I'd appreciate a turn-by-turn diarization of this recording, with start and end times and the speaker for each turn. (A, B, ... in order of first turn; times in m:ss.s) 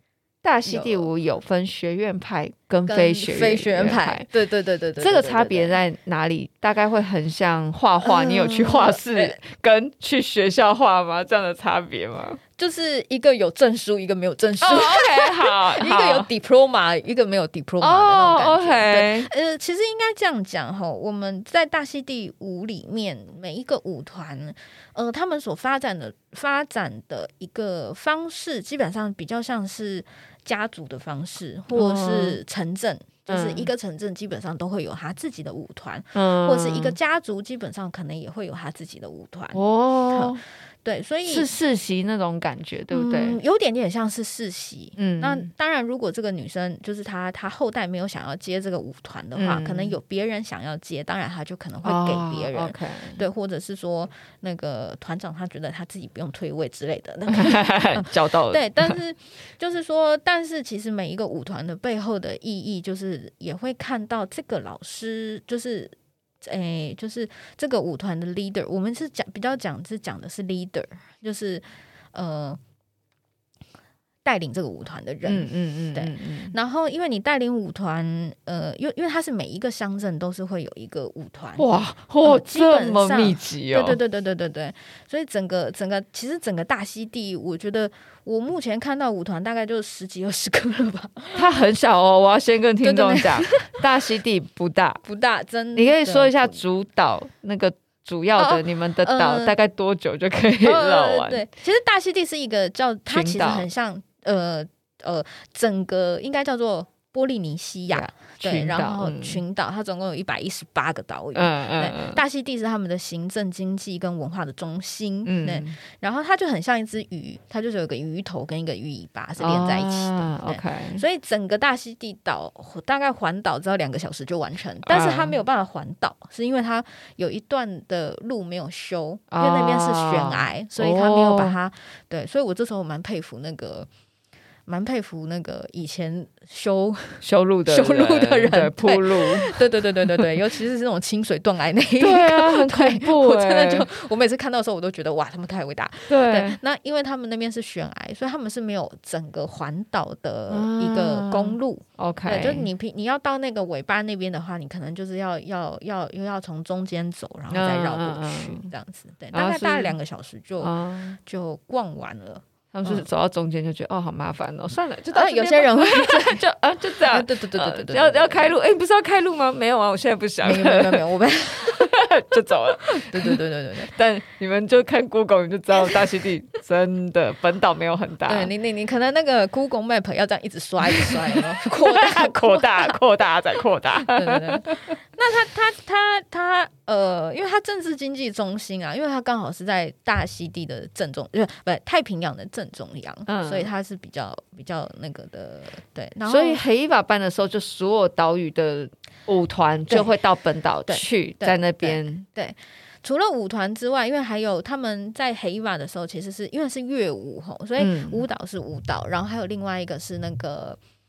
0:00.4-0:04.3 A
0:00.6-0:01.1 B
0:02.9-0:05.8 B
0:05.0-0:12.4 A
0:08.0-0:09.4 B
0:12.6-0:41.5 B
0:14.6-0:16.3 A
0:17.8-0:19.3 A
0:31.7-0:32.4 A
0:33.3-0:33.7 A
0:36.1-0:37.0 A
0:39.5-0:40.4 A
0:41.2-0:43.4 A
0:42.9-1:12.6 B
0:45.0-0:45.5 A
0:49.4-0:50.0 A
0:51.8-0:53.2 A
0:57.3-0:59.0 A
1:14.2-1:21.7 B
1:15.2-1:16.5 A
1:21.6-1:24.0 A
1:22.2-1:31.5 B
1:31.3-1:35.0 A
1:32.8-1:33.8 B
1:35.0-1:36.6 B
1:35.7-1:41.4 A
1:38.4-1:39.5 B
1:40.6-2:13.9 B
1:43.0-1:43.7 A
1:47.9-1:49.4 A
1:51.3-1:52.2 A
1:55.2-1:55.8 A
1:59.4-2:01.0 A
2:04.8-2:05.4 A
2:09.3-2:11.6 A
2:14.7-2:43.0 B
2:17.2-2:20.3 A
2:22.0-2:23.9 A
2:26.1-2:26.6 A
2:30.5-2:32.7 A
2:37.5-2:38.7 A
2:39.3-2:40.0 A
2:40.6-2:41.2 A
2:42.7-2:58.5 A
2:45.1-2:46.4 B
2:47.0-2:48.5 B
2:50.4-2:53.9 B
2:55.8-2:56.0 B
2:58.2-3:03.0 B
3:00.9-3:05.0 A
3:04.0-3:16.6 B
3:13.3-3:13.7 A
3:16.2-3:22.2 A
3:20.9-3:30.8 B
3:27.8-3:28.2 A